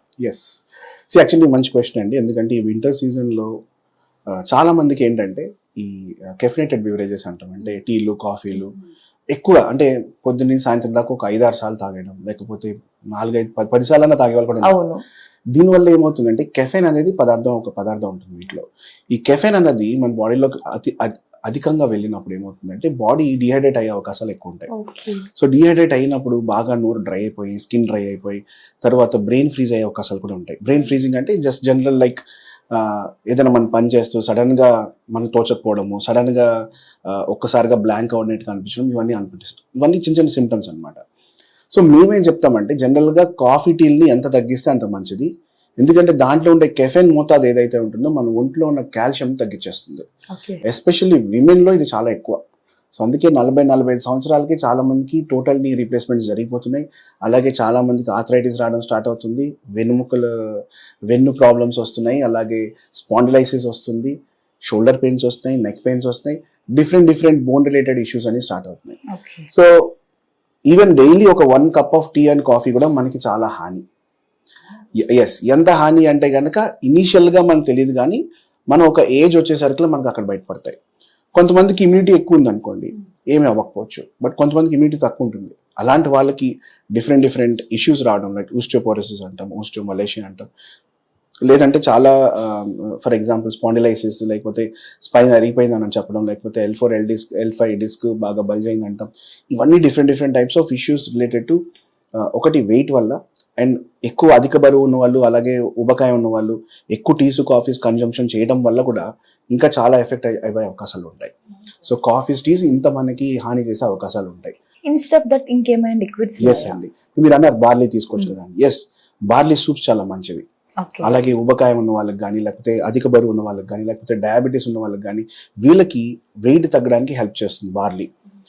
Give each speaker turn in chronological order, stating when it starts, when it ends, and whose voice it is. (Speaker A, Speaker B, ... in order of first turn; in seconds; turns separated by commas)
Speaker A: 0.2-3.5, Speaker A: 4.5-8.7, Speaker A: 9.3-14.8, Speaker B: 14.6-15.0, Speaker A: 15.6-24.7, Speaker B: 24.7-25.2, Speaker A: 25.3-36.5, Speaker A: 37.1-41.0, Speaker A: 41.7-45.3, Speaker A: 45.8-50.0, Speaker B: 50.3-50.6, Speaker A: 50.6-52.4, Speaker A: 53.0-64.1, Speaker A: 64.7-70.0, Speaker B: 69.1-69.5, Speaker A: 70.7-73.8, Speaker A: 75.0-80.8, Speaker A: 81.3-90.5, Speaker A: 91.4-101.6, Speaker A: 102.2-114.5, Speaker B: 114.9-116.8, Speaker A: 116.4-120.4, Speaker B: 120.8-121.1, Speaker A: 121.0-128.1